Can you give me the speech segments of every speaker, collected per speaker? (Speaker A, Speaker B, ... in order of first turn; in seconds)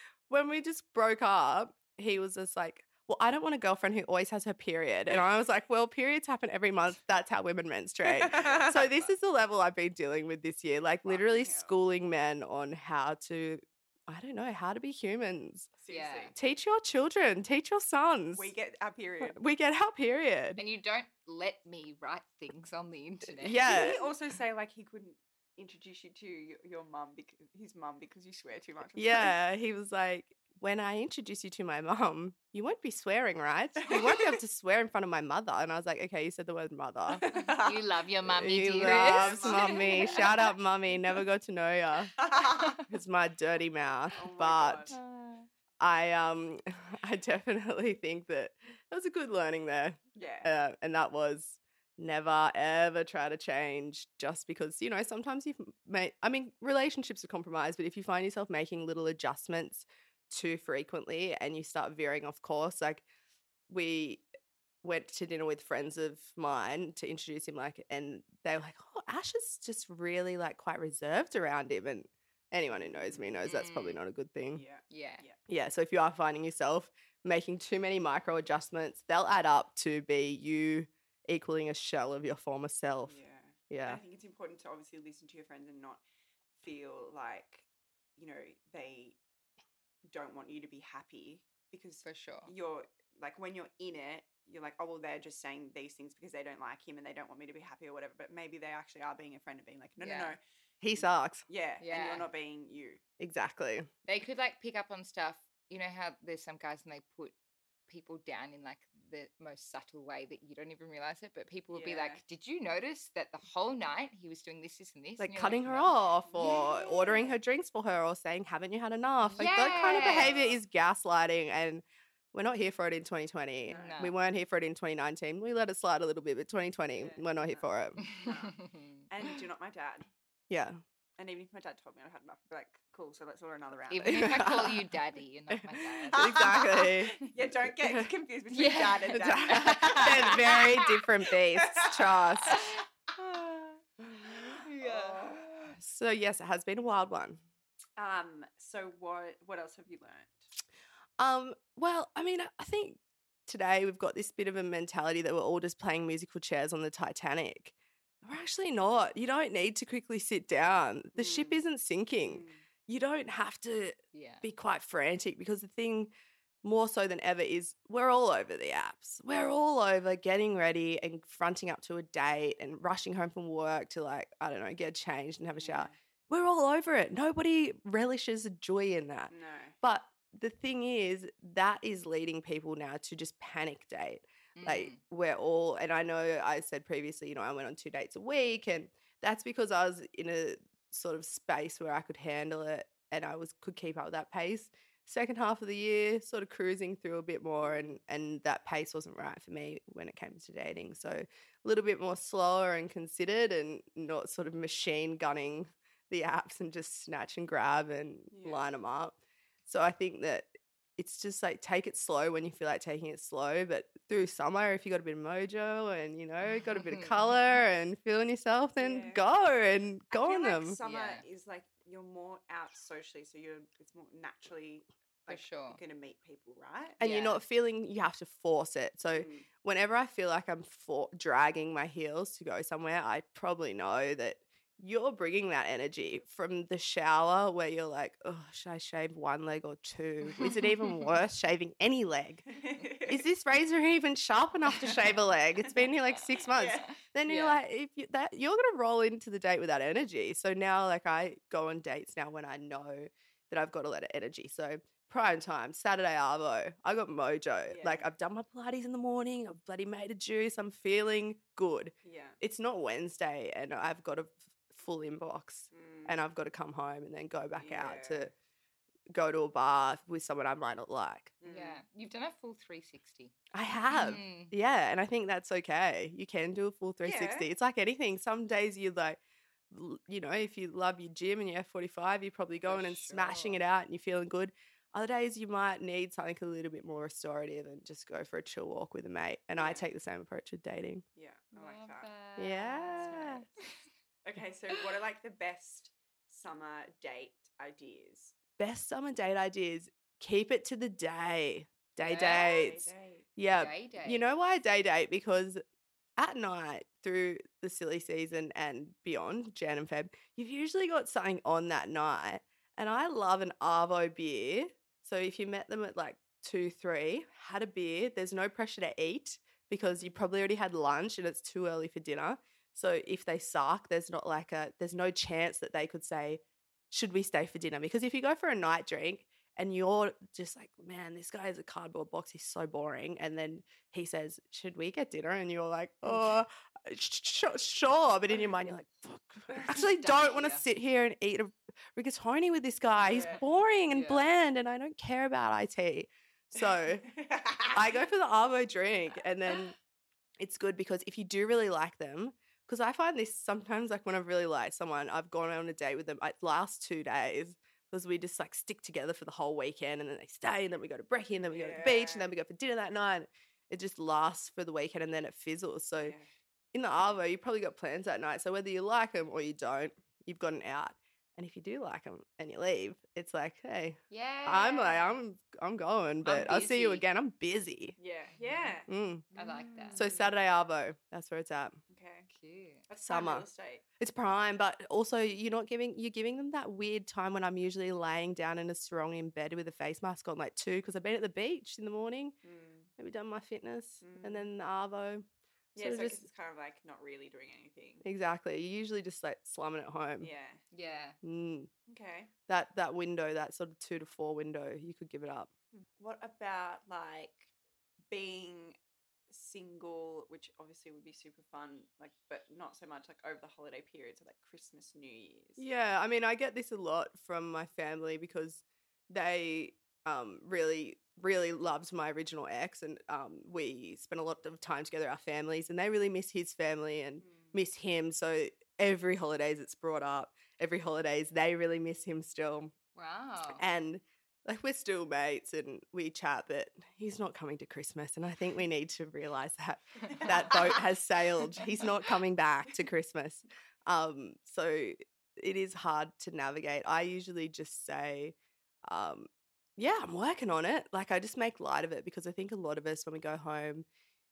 Speaker A: 0.3-15.7, 16.3-18.5, 19.2-20.6, 23.3-24.0, 28.9-37.2, 38.2-42.2, 42.8-45.0, 45.8-63.0, 63.7-64.2, 64.8-74.6, 75.5-83.2, 83.7-84.0, 100.8-101.5, 103.2-103.9, 115.2-128.0, 130.5-130.8, 134.1-134.8, 135.5-137.3, 137.8-138.1, 139.1-142.6, 145.6-147.4, 151.2-166.1, 166.6-220.8, 227.0-242.5, 243.1-268.3, 269.1-271.3, 273.5-279.2, 279.7-291.0, 292.4-293.4, 298.6-305.6, 306.2-347.1, 347.6-349.8, 350.4-366.1, 366.7-377.9, 378.9-379.3, 379.9-381.8, 383.1-383.5, 384.0-392.4, 393.0-395.2, 395.8-396.2, 398.0-400.3, 401.2-401.7, 402.5-405.5, 415.6-432.7, 433.5-448.3, 448.9-453.9
Speaker B: 8.1-9.1, 11.0-11.7, 15.8-16.3, 18.3-19.4, 23.6-29.3, 33.9-34.2, 37.2-37.8, 38.8-40.5, 42.1-42.8, 44.1-45.0, 50.1-50.5, 72.7-73.4, 74.5-75.4, 83.0-86.0, 86.6-89.2, 90.1-100.4, 100.9-103.0, 111.7-112.2, 116.2-117.4, 119.9-120.6, 123.7-124.0, 127.0-130.1, 131.2-134.7, 136.1-140.8, 141.5-145.8, 148.0-150.4, 161.1-161.6, 162.2-162.6, 175.6-175.9, 179.3-179.7, 197.6-198.0, 208.3-208.7, 218.8-219.2, 220.1-227.0, 229.1-229.5, 242.5-243.2, 245.6-246.9, 257.7-258.1, 262.0-262.4, 265.7-266.2, 267.6-268.3, 271.4-271.8, 277.0-277.5, 289.6-289.8, 291.1-292.1, 292.9-293.4, 294.2-298.3, 302.1-303.3, 343.0-343.4, 347.1-348.0, 361.5-362.3, 365.9-366.3, 378.0-380.4, 381.9-382.3, 382.9-383.8, 392.4-392.9, 394.0-394.5, 395.7-398.0, 400.2-400.6, 401.9-402.3, 405.7-407.5, 408.1-408.8, 409.3-415.6, 427.2-427.5, 440.1-440.8
Speaker C: 15.9-16.3, 20.6-24.0, 37.3-40.4, 44.9-45.5, 73.4-74.0, 74.9-75.2, 92.0-92.5, 100.0-100.3, 101.8-102.2, 104.0-107.3, 107.9-116.9, 119.2-120.4, 123.7-124.2, 128.0-129.0, 133.9-136.5, 138.5-140.8, 144.3-145.4, 164.1-164.4, 184.6-185.0, 216.4-217.4, 220.8-221.2, 225.3-225.8, 227.0-227.4, 240.2-241.2, 247.2-247.6, 271.4-273.4, 273.9-274.5, 282.7-283.6, 291.5-293.8, 302.0-302.6, 303.5-304.2, 336.1-336.4, 339.5-340.6, 343.9-344.3, 374.1-375.2, 376.2-377.0, 378.4-378.8, 379.4-380.1, 382.3-382.9, 400.7-401.2, 432.9-433.6